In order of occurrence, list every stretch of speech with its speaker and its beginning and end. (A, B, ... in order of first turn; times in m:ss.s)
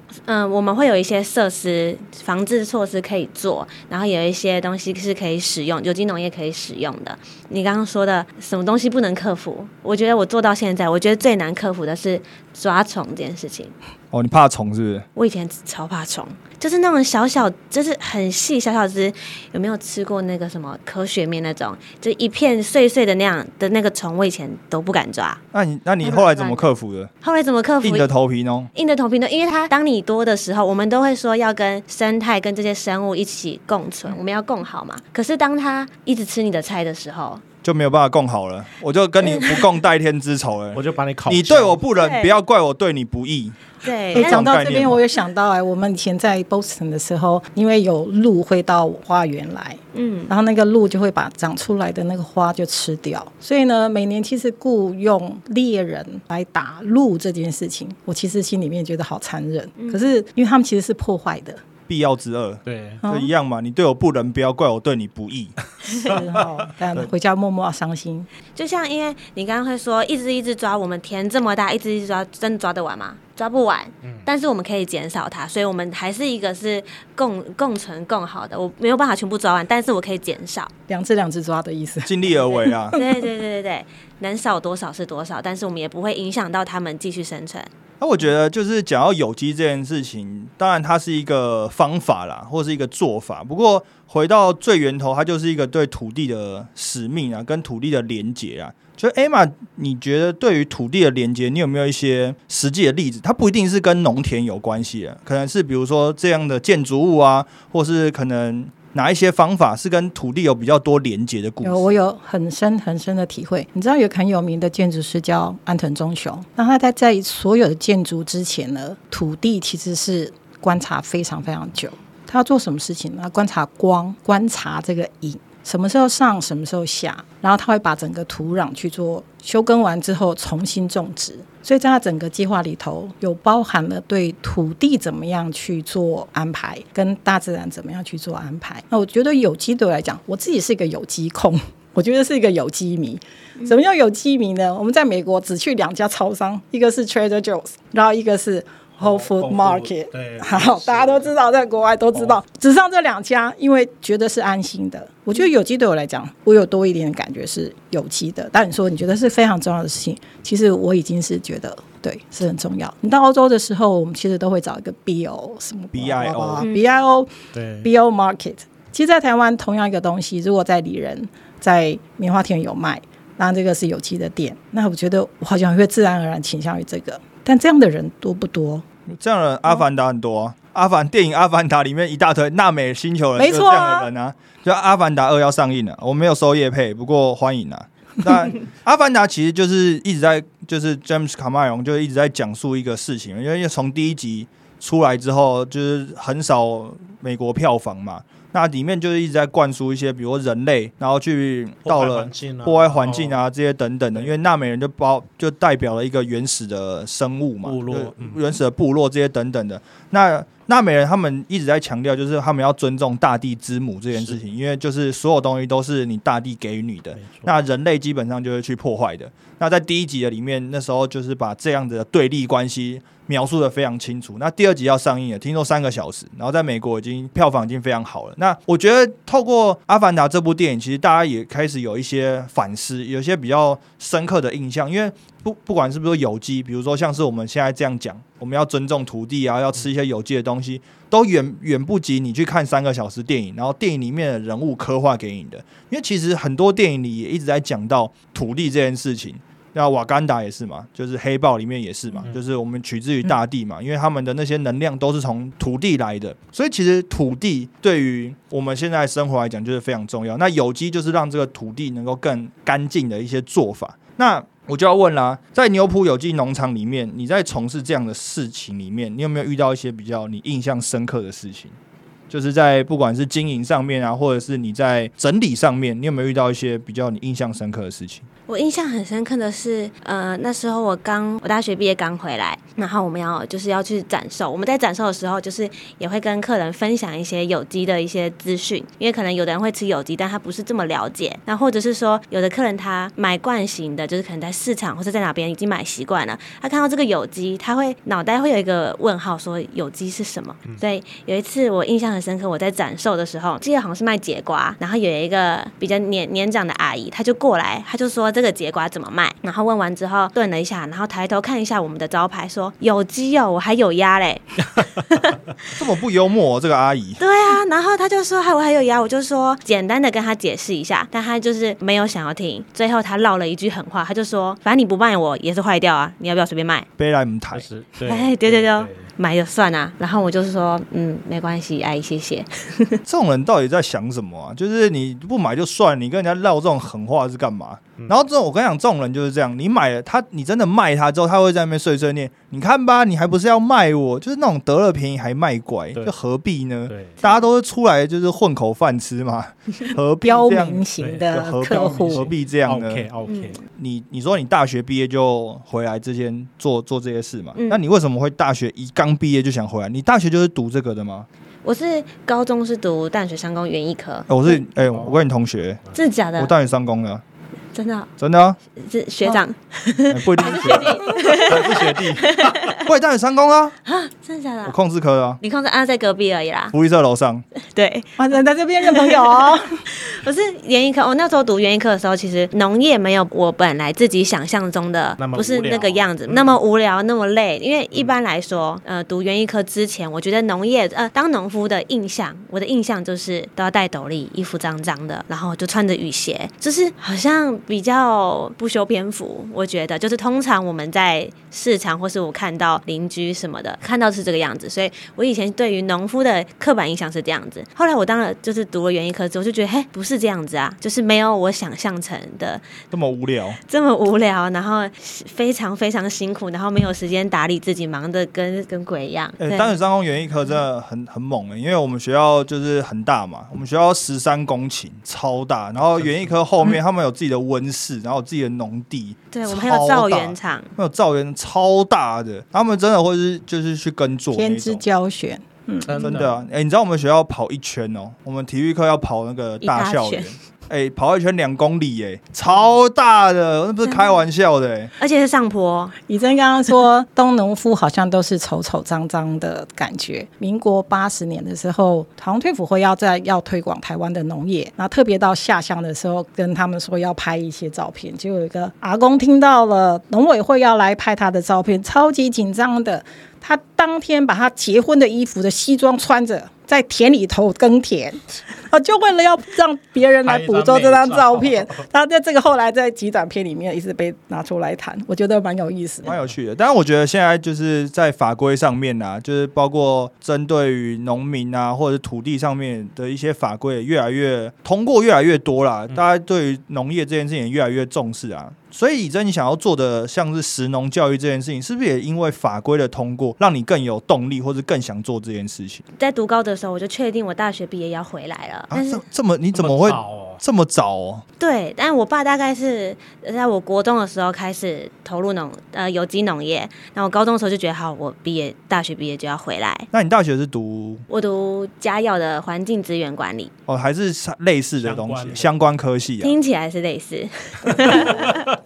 0:00.2-0:13.7 A
0:14.1-0:15.0 B
0:15.2-0:25.4 A
0:25.5-0:27.1 B
0:26.0-0:26.6 A
0:27.2-0:28.1 A
0:27.8-0:28.7 B
0:28.7-0:37.4 A
0:37.6-0:43.6 B
0:40.7-0:41.8 C
0:42.0-0:42.3 A
0:43.8-0:44.5 A
0:44.1-0:45.0 B
0:44.1-1:01.6 D
0:49.9-0:50.3 A
0:59.8-1:00.1 A
1:01.9-1:05.6 B
1:02.6-1:03.0 C
1:03.0-1:03.3 D
1:06.0-1:08.3 D
1:08.5-1:20.7 A
1:20.9-1:23.3 D
1:22.0-1:23.0 B
1:22.9-1:27.7 A
1:28.0-1:51.9 B
1:51.6-2:47.3 D
2:29.0-2:31.3 C
2:32.1-2:32.4 C
2:45.9-2:46.6 B
2:47.5-2:47.9 C
2:47.8-2:58.8 D
2:59.1-4:31.7 B
3:03.4-3:04.1 D
3:21.8-3:23.4 C
3:27.6-3:28.4 C
3:37.2-3:37.5 C
4:32.3-4:38.2 B
4:38.5-5:15.4 A
5:15.8-5:17.2 B
5:17.2-5:26.9 A
5:27.0-5:27.6 B
5:27.5-5:29.1 C
5:28.0-5:33.0 A
5:33.0-5:53.1 B
5:46.9-5:47.2 C
5:50.2-5:52.3 D
5:51.0-5:53.6 C
5:53.2-5:53.6 A
5:53.8-6:01.3 B
5:57.5-5:57.8 A
6:01.6-6:04.6 A
6:04.3-6:05.8 B
6:05.9-6:06.5 A
6:06.4-6:07.2 B
6:07.7-6:08.1 A
6:08.2-6:08.6 B
6:08.8-6:12.8 A
6:10.1-6:13.7 B
6:10.7-6:12.6 C
6:13.8-6:14.8 A
6:14.6-6:15.4 B
6:15.4-6:16.7 A
6:16.7-6:17.4 B
6:17.7-6:18.1 A
6:18.2-6:19.8 D
6:18.9-6:52.6 A
6:25.2-6:26.6 C
6:52.9-6:53.6 B
6:53.6-6:59.8 A
6:59.4-7:14.8 B
7:05.9-7:06.3 C
7:09.3-7:10.7 A
7:14.3-7:16.2 D
7:15.8-7:16.4 C
7:16.0-7:24.9 B
7:19.6-7:20.3 A
7:25.0-7:26.0 A
7:26.1-7:56.1 D
7:50.2-7:51.8 C
7:56.0-8:15.8 B
8:16.0-8:19.0 A
8:18.7-8:21.2 B
8:19.5-8:20.4 C
8:21.4-8:29.9 A
8:29.9-8:31.0 B
8:31.1-8:33.5 A
8:33.7-8:36.4 B
8:34.8-8:35.5 C
8:36.2-8:38.4 A